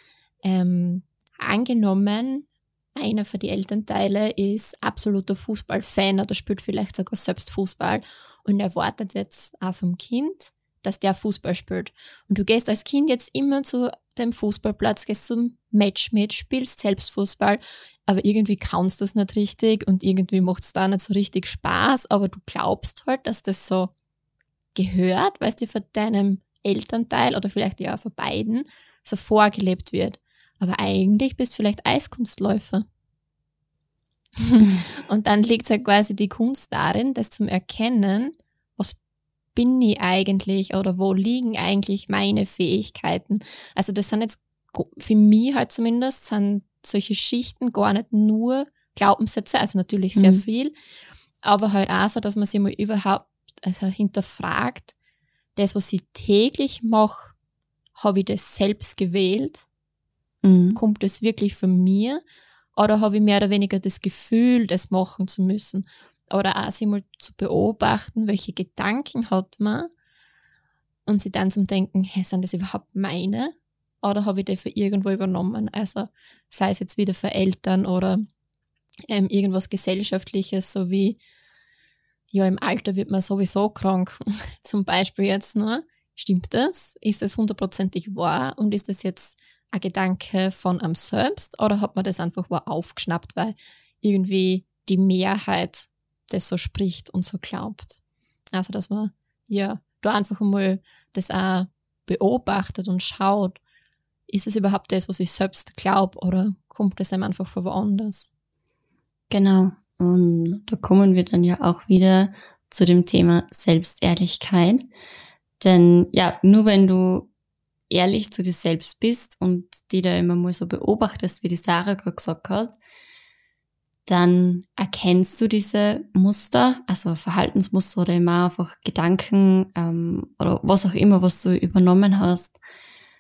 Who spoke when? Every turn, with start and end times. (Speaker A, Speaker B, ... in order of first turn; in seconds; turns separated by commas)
Speaker A: 0.4-23.9, Speaker A: 24.8-32.9, Speaker A: 34.4-39.0, Speaker A: 39.5-50.7, Speaker B: 50.2-50.5, Speaker A: 51.4-54.9, Speaker A: 55.6-57.3, Speaker A: 58.0-59.7, Speaker B: 60.4-60.8, Speaker A: 60.8-62.2, Speaker A: 62.8-69.9, Speaker A: 71.1-78.2, Speaker A: 79.1-81.2, Speaker A: 82.3-98.0, Speaker A: 98.5-103.6, Speaker A: 104.3-108.3, Speaker B: 109.3-114.9, Speaker B: 115.6-117.3, Speaker B: 117.9-122.8, Speaker B: 124.1-132.6